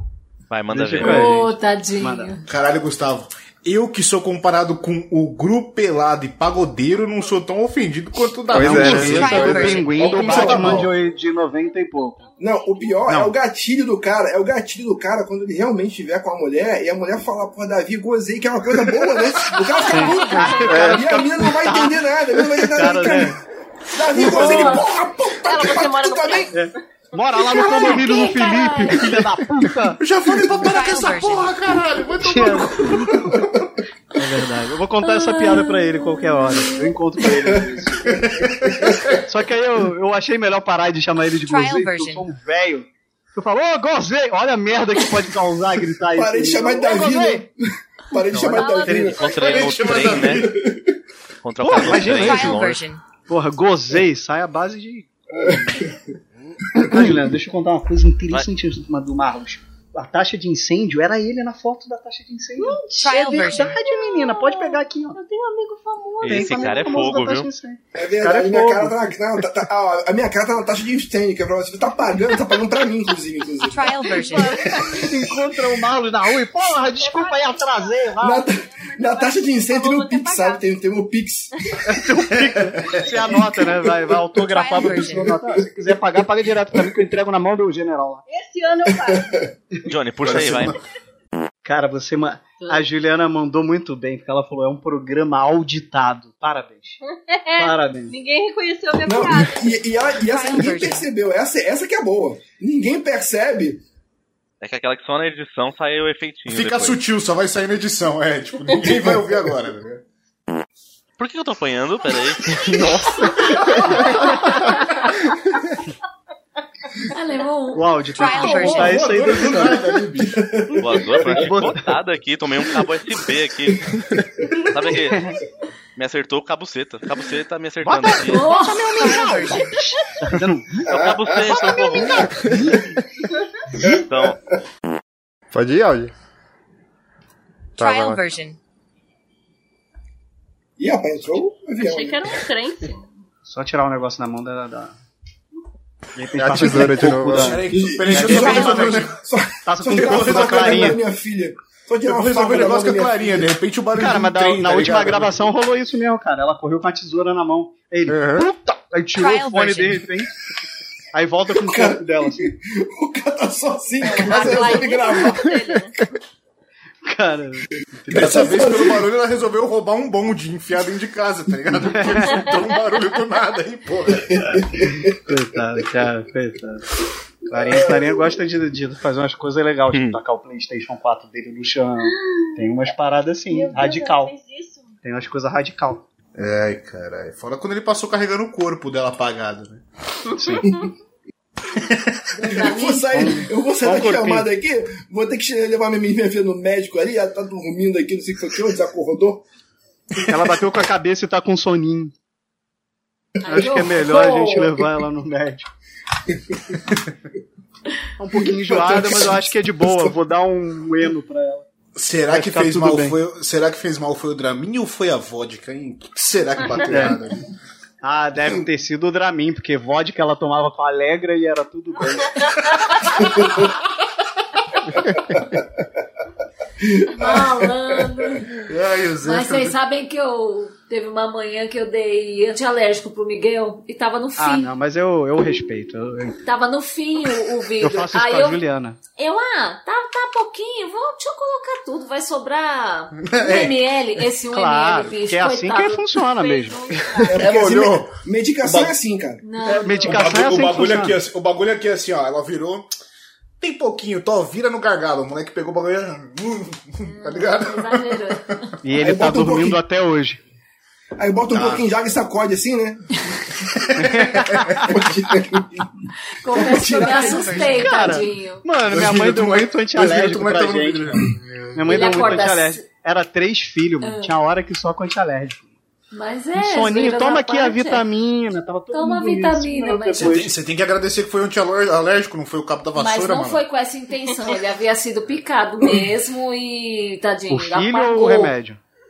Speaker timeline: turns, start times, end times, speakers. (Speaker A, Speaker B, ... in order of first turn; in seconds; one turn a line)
Speaker A: 0.5-1.3
Speaker B: 0.7-2.3
Speaker C: 1.0-2.5
Speaker D: 2.5-10.9
Speaker E: 8.5-9.7
Speaker B: 8.5-12.2
Speaker F: 9.1-10.6
Speaker C: 10.0-10.4
Speaker G: 10.3-13.1
Speaker H: 10.3-10.9
Speaker H: 12.4-26.5
Speaker B: 13.1-13.3
Speaker B: 19.8-22.1
Speaker G: 19.9-21.1
Speaker B: 22.7-23.4
Speaker G: 24.2-26.7
Speaker B: 24.3-24.8
Speaker B: 26.5-30.0
Speaker C: 27.5-29.1
Speaker G: 27.5-28.2
Speaker D: 30.0-33.7
Speaker F: 30.6-31.6
Speaker B: 32.2-33.4
Speaker B: 34.1-38.2
Speaker C: 35.3-36.2
Speaker H: 37.3-39.0
Speaker D: 38.1-39.2
Speaker B: 39.2-47.5
Speaker F: 41.4-42.3
Speaker H: 46.1-47.5
Speaker H: 48.1-49.4
Speaker B: 48.3-49.3
Speaker G: 48.3-49.8
Speaker A: 49.1-50.5
Speaker D: 49.4-50.6
Speaker H: 50.2-51.0
Speaker A: 51.4-52.8
Speaker B: 51.6-52.6
Speaker F: 51.9-53.0
Speaker B: 53.3-55.8
Speaker H: 55.4-56.0
Speaker H: 56.8-57.2
Speaker B: 56.8-65.2
Speaker G: 62.5-67.1
Speaker F: 63.0-63.8
Speaker A: 66.2-67.5
Speaker B: 66.2-69.1
Speaker H: 68.0-75.0
Speaker F: 73.6-74.6
Speaker B: 74.2-78.4
Speaker G: 76.7-80.6
Speaker H: 78.2-81.5
Speaker B: 81.8-88.2
Speaker F: 84.5-85.4
Speaker H: 84.7-85.9
Speaker G: 88.3-89.5
Speaker H: 88.9-89.2
Speaker A: 89.9-90.7
Speaker D: 90.2-90.8
Speaker B: 91.6-97.0
Speaker G: 97.1-99.8
Speaker B: 97.6-98.1
Speaker H: 99.0-103.8
Speaker F: 100.2-101.1
Speaker A: 104.6-107.0
Speaker D: 106.5-110.0
Speaker A: 111.2-112.7
Speaker E: 112.7-113.2
Speaker G: 113.0-114.5
Speaker E: 113.8-114.1
Speaker C: 117.1-118.2
Speaker B: 117.7-120.0
Speaker F: 118.1-119.0
Speaker D: 118.4-120.4
Speaker H: 119.4-121.6
Speaker A: 120.8-123.9
Speaker B: 121.3-121.8
Speaker H: 123.9-124.5
Speaker A: 124.7-125.3
Speaker A: 126.0-128.6
Speaker B: 127.8-130.9
Speaker C: 128.2-129.2
Speaker F: 128.9-129.7
Speaker G: 129.2-130.0
Speaker H: 130.9-132.7
Speaker A: 130.9-132.4
Speaker B: 132.4-132.9
Speaker H: 133.8-134.0
Speaker A: 133.9-134.4
Speaker E: 135.5-136.1
Speaker E: 137.8-138.2
Speaker F: 137.8-138.6
Speaker H: 140.8-142.4
Speaker G: 141.8-143.1
Speaker B: 143.5-144.9
Speaker B: 146.2-149.1
Speaker E: 146.4-147.6
Speaker D: 147.0-149.2
Speaker H: 147.7-153.5
Speaker B: 149.6-151.0
Speaker D: 149.9-151.0
Speaker D: 152.1-155.4
Speaker B: 153.9-160.3
Speaker D: 158.1-158.4
Speaker F: 159.1-160.1
Speaker B: 161.1-162.5
Speaker H: 161.6-165.8
Speaker G: 164.0-166.0
Speaker B: 167.1-168.6
Speaker D: 168.1-174.6
Speaker H: 168.1-169.1
Speaker B: 171.9-172.4
Speaker H: 174.3-175.1
Speaker B: 175.3-176.9
Speaker B: 177.5-184.3
Speaker H: 177.7-178.2
Speaker A: 179.9-180.2
Speaker G: 183.5-185.0
Speaker B: 185.0-186.1
Speaker D: 186.4-189.8
Speaker B: 190.4-190.6
Speaker D: 191.8-192.6
Speaker C: 192.3-193.2
Speaker H: 192.5-199.4
Speaker B: 193.1-194.5
Speaker B: 200.3-202.1
Speaker C: 203.4-204.7
Speaker B: 203.5-205.7
Speaker H: 203.5-204.3
Speaker H: 206.3-206.8
Speaker B: 208.2-211.7
Speaker H: 208.7-209.5
Speaker D: 211.9-217.4
Speaker B: 212.3-213.2
Speaker B: 216.9-217.2
Speaker B: 218.0-222.4
Speaker H: 225.3-225.6
Speaker H: 226.8-228.2
Speaker C: 227.1-228.5
Speaker D: 228.6-229.8
Speaker C: 229.2-234.7
Speaker B: 234.4-236.4
Speaker C: 236.4-238.6
Speaker B: 237.8-239.0
Speaker C: 239.2-246.1
Speaker D: 243.2-243.8
Speaker B: 244.5-246.9
Speaker G: 246.2-247.4
Speaker H: 247.3-249.4
Speaker D: 247.3-248.9
Speaker C: 249.4-250.4
Speaker D: 249.7-252.9
Speaker B: 249.8-251.2
Speaker D: 253.6-258.7
Speaker C: 257.0-258.7
Speaker B: 258.8-260.4
Speaker H: 259.0-259.8
Speaker H: 261.2-263.0
Speaker D: 261.5-261.9
Speaker D: 263.6-265.0
Speaker B: 263.9-264.9
Speaker H: 264.9-265.9
Speaker C: 266.4-268.6
Speaker D: 266.6-267.7
Speaker H: 266.6-267.7
Speaker F: 266.8-268.1
Speaker B: 267.6-271.2
Speaker D: 268.8-272.3
Speaker B: 271.7-275.7
Speaker C: 271.8-272.8
Speaker C: 274.0-274.3
Speaker C: 276.1-278.1
Speaker B: 276.6-280.5
Speaker C: 278.9-280.5
Speaker D: 280.2-283.6
Speaker C: 282.9-288.5
Speaker B: 287.5-288.8